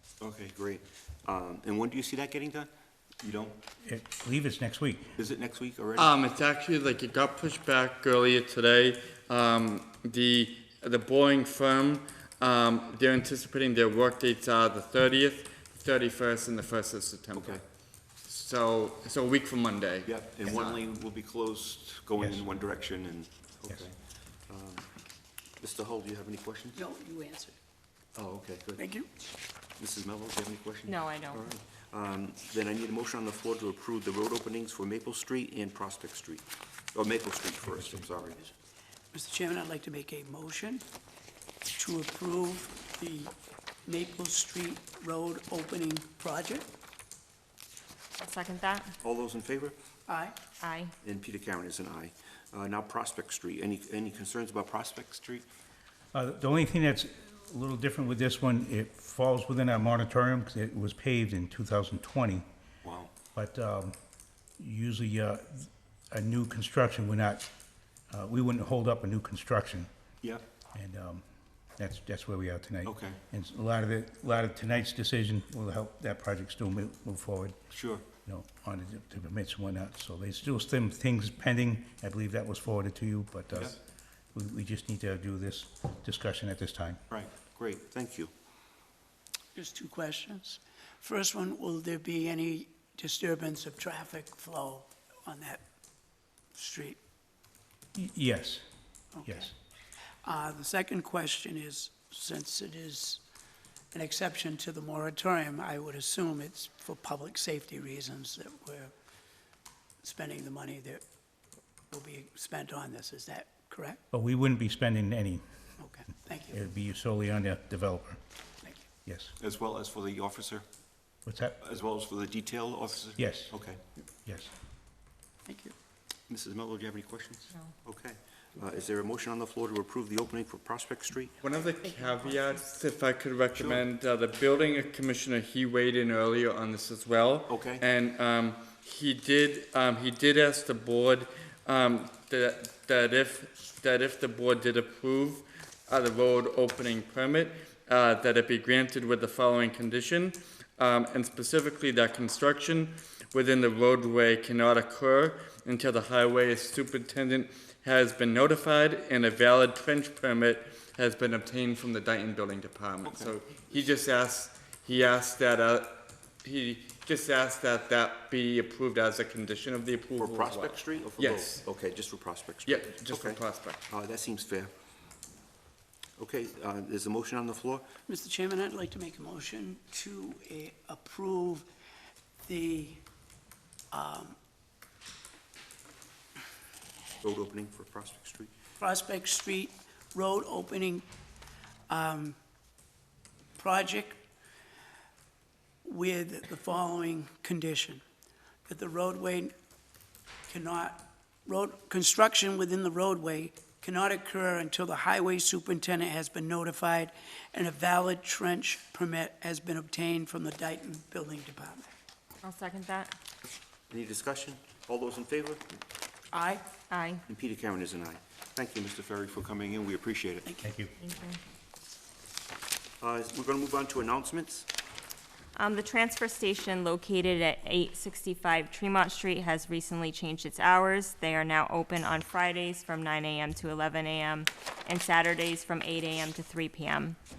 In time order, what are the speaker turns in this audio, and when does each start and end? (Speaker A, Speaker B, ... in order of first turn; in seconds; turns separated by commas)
Speaker A: 0.2-3.6, Speaker B: 3.8-5.2, Speaker A: 5.2-6.1, Speaker C: 6.0-17.6, Speaker A: 17.3-17.6, Speaker C: 18.2-20.8, Speaker A: 20.1-24.0, Speaker A: 24.5-24.9, Speaker A: 25.6-26.8, Speaker D: 26.8-27.6, Speaker A: 28.1-28.8, Speaker D: 28.8-29.1, Speaker A: 29.8-38.4, Speaker E: 30.9-31.4, Speaker B: 37.7-38.0, Speaker D: 39.1-40.8, Speaker D: 41.8-43.3, Speaker D: 43.9-46.7, Speaker E: 48.2-48.9, Speaker A: 49.0-49.8, Speaker D: 50.1-50.4, Speaker E: 50.6-50.9, Speaker A: 51.0-55.5, Speaker B: 56.1-62.5, Speaker A: 62.8-63.1, Speaker B: 63.3-64.0, Speaker B: 64.6-67.5, Speaker B: 68.1-69.9, Speaker B: 70.7-71.3, Speaker B: 71.8-77.6, Speaker A: 72.8-73.2, Speaker A: 77.7-78.0, Speaker B: 78.2-83.8, Speaker B: 84.3-87.0, Speaker A: 87.1-88.3, Speaker D: 89.5-95.6, Speaker D: 96.5-97.0, Speaker B: 98.0-98.7, Speaker D: 99.2-99.5, Speaker B: 99.2-99.5, Speaker D: 100.2-103.2, Speaker D: 103.9-108.9, Speaker D: 110.0-111.0, Speaker D: 111.9-114.0, Speaker B: 114.1-115.4, Speaker D: 115.8-116.6, Speaker B: 116.5-118.2, Speaker B: 119.0-119.3, Speaker A: 119.4-120.7, Speaker B: 121.3-121.6, Speaker A: 121.6-123.8, Speaker B: 123.2-123.5, Speaker B: 124.2-124.5, Speaker D: 125.5-125.8, Speaker A: 126.3-131.3, Speaker C: 131.4-171.6, Speaker A: 133.6-133.8, Speaker A: 137.5-137.8, Speaker A: 163.1-163.3, Speaker A: 170.2-174.7, Speaker C: 172.7-173.8, Speaker A: 176.2-177.9, Speaker D: 178.1-181.7, Speaker D: 182.4-183.0, Speaker D: 183.9-184.4, Speaker A: 187.2-188.5, Speaker D: 188.8-191.1, Speaker D: 191.9-192.4, Speaker D: 193.6-194.2, Speaker D: 195.8-198.0, Speaker D: 198.7-199.5, Speaker D: 200.5-211.9, Speaker E: 212.4-213.1, Speaker A: 213.9-215.6, Speaker D: 216.3-216.7, Speaker E: 216.9-217.2, Speaker A: 217.2-220.5, Speaker B: 220.6-221.0, Speaker E: 221.0-221.4, Speaker A: 223.0-224.7, Speaker E: 225.6-237.2